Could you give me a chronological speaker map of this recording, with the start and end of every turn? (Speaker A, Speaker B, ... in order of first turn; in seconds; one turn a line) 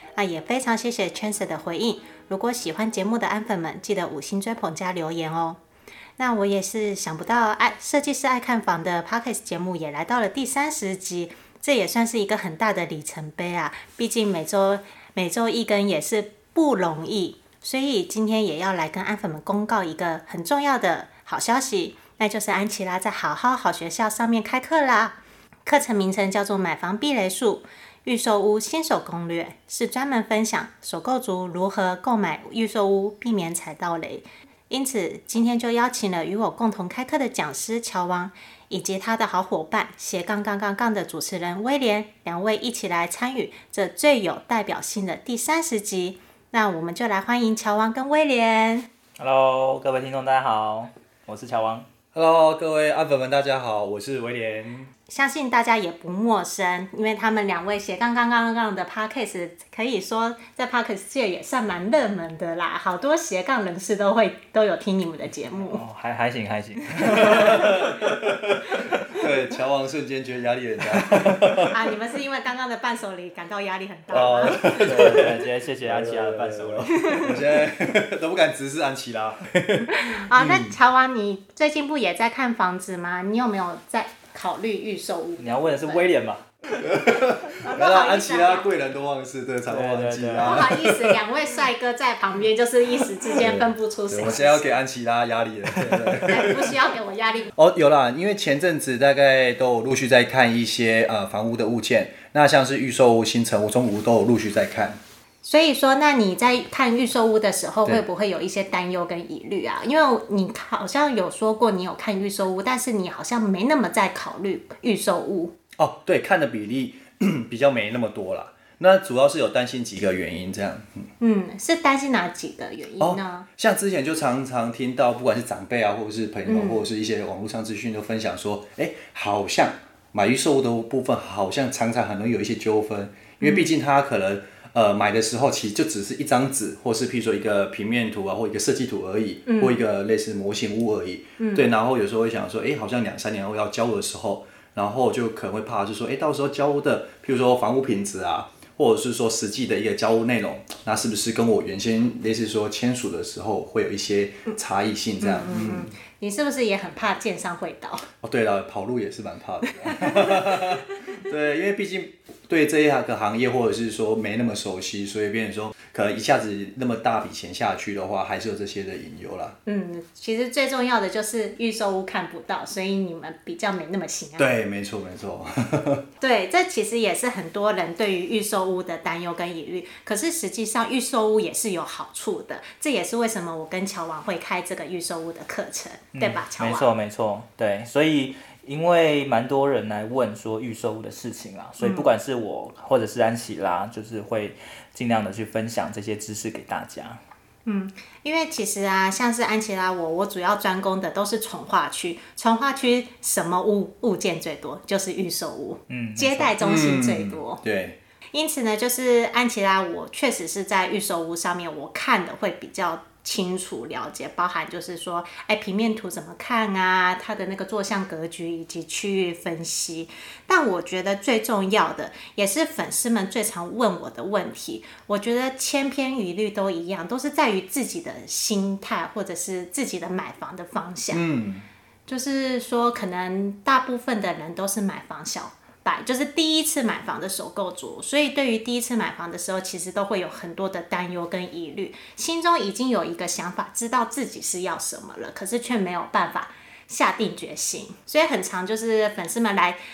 Speaker A: 0.1-5.6
Speaker A: 6.2-48.9
Speaker B: 49.2-51.9
Speaker C: 52.1-54.9
Speaker A: 55.1-65.8
Speaker B: 65.6-68.1
Speaker C: 67.0-71.8
Speaker A: 71.6-75.2
Speaker C: 74.1-80.8
Speaker B: 74.6-77.3
Speaker A: 77.0-77.3
Speaker A: 79.9-86.0
Speaker B: 85.4-86.9
Speaker C: 86.8-91.1
Speaker A: 87.5-88.7
Speaker B: 89.7-90.7
Speaker A: 90.4-94.8
Speaker C: 93.3-96.9
Speaker A: 96.2-97.5
Speaker C: 97.5-105.0
Speaker A: 105.4-115.5
Speaker C: 115.8-121.1
Speaker A: 121.2-123.5
Speaker C: 123.0-155.9
Speaker A: 126.5-126.8
Speaker A: 133.4-133.7
Speaker A: 139.5-139.8
Speaker A: 141.4-141.7
Speaker A: 155.2-158.1
Speaker C: 158.2-169.6
Speaker A: 159.9-160.6
Speaker A: 169.7-174.5
Speaker C: 174.4-176.1
Speaker A: 176.2-186.9
Speaker B: 186.1-197.2
Speaker A: 191.8-192.1
Speaker A: 197.7-207.6
Speaker B: 205.9-206.5
Speaker C: 206.6-208.0
Speaker A: 208.3-231.2
Speaker C: 231.1-231.7
Speaker A: 232.1-249.8